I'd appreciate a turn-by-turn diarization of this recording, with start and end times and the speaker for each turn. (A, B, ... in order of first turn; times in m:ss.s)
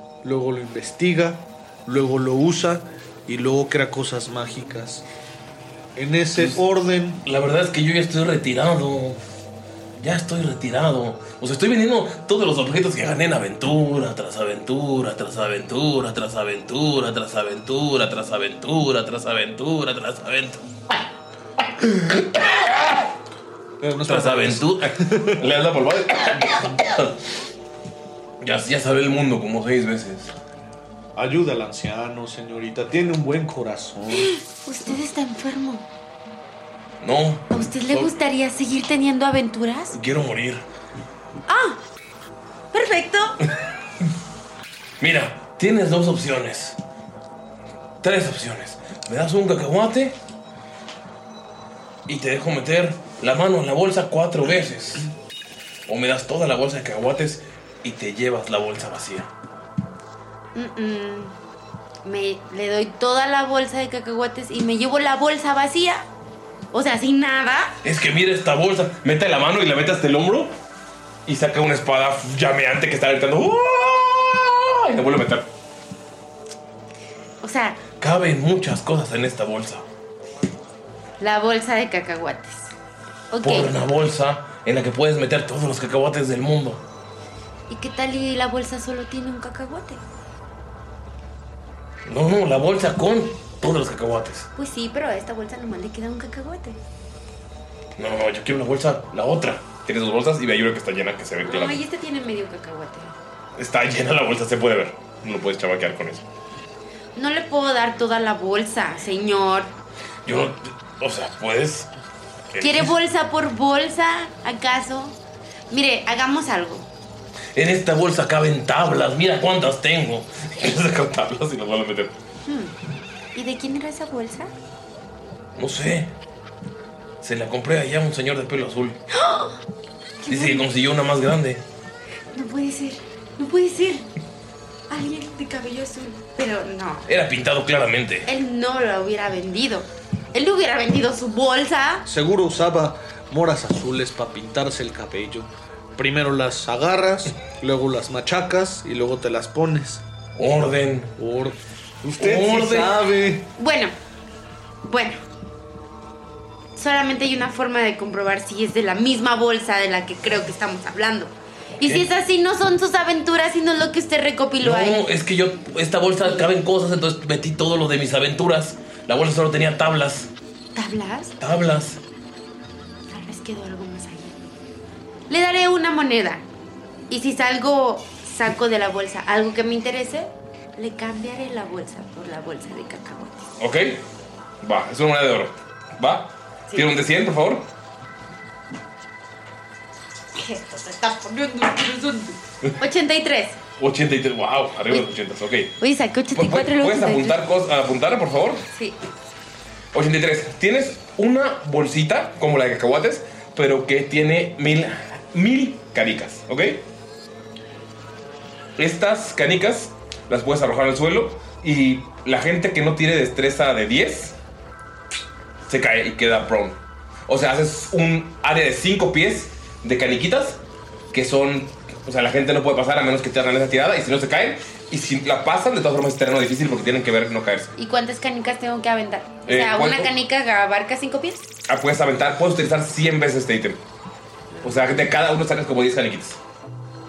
0:00.2-0:05.0 A
0:06.0-0:07.2 A
0:07.2-0:09.2 B
0:10.0-0:21.0 B
0:21.6-0:23.0 B
0:23.8-0:25.4 A
0:24.1-0:27.1 B
0:28.4-0:30.3 B
0:31.2-0:34.3 A
0:34.1-0:35.8 C
0:37.0-0:38.1 B
0:37.5-0:40.0 C
0:39.9-0:40.6 B
0:41.5-0:41.8 C
0:42.7-0:43.4 C
0:45.0-0:46.8 B
0:48.0-0:50.2 B
0:52.1-0:55.1 B
0:55.9-0:59.3 B
1:00.5-1:01.3 C
1:02.0-1:06.1 C
1:06.7-1:07.8 C
1:07.8-1:10.5 B
1:11.2-1:15.5 B
1:17.4-1:17.8 C
1:18.0-1:19.9 B
1:21.2-1:22.7 C
1:23.3-1:23.7 C
1:23.4-1:26.8 B
1:27.7-1:30.0 C
1:32.0-1:34.5 B
1:34.6-1:36.8 C
1:38.0-1:41.8 B
1:41.4-1:43.1 C
1:43.6-1:46.2 B
1:47.2-1:49.7 C
1:50.2-1:51.9 B
1:52.5-1:52.9 B
1:52.6-1:55.2 C
1:55.7-1:56.9 C
1:57.5-2:02.1 B
2:02.4-2:02.7 C
2:03.3-2:04.5 C
2:05.6-2:06.1 B
2:07.2-2:09.0 B
2:09.1-2:09.6 C
2:10.2-2:10.6 C
2:10.3-2:11.6 B
2:12.3-2:14.1 C
2:14.9-2:17.1 C
2:17.1-2:18.3 B
2:18.2-2:22.0 C
2:22.0-2:30.0 A
2:30.4-2:31.2 B
2:31.2-2:33.5 A
2:32.2-2:33.0 B
2:33.6-2:33.9 C
2:34.8-2:35.2 C
2:36.8-2:45.1 C
2:41.8-2:42.0 B
2:44.6-2:50.3 B
2:50.7-2:51.3 C
2:51.4-2:52.0 B
2:53.1-2:54.4 C
2:55.3-2:56.4 C
2:57.1-3:03.4 C
3:03.6-3:04.0 B
3:04.6-3:07.7 B
3:10.4-3:13.6 C
3:13.8-3:15.8 B
3:15.8-3:17.4 C
3:16.3-3:18.6 B
3:18.7-3:19.0 C
3:19.9-3:26.8 B
3:28.8-3:34.4 B
3:35.7-3:40.6 B
3:41.1-3:47.7 B
3:47.8-3:51.5 C
3:49.5-3:50.1 B
3:51.7-3:53.8 B
3:54.6-3:56.4 B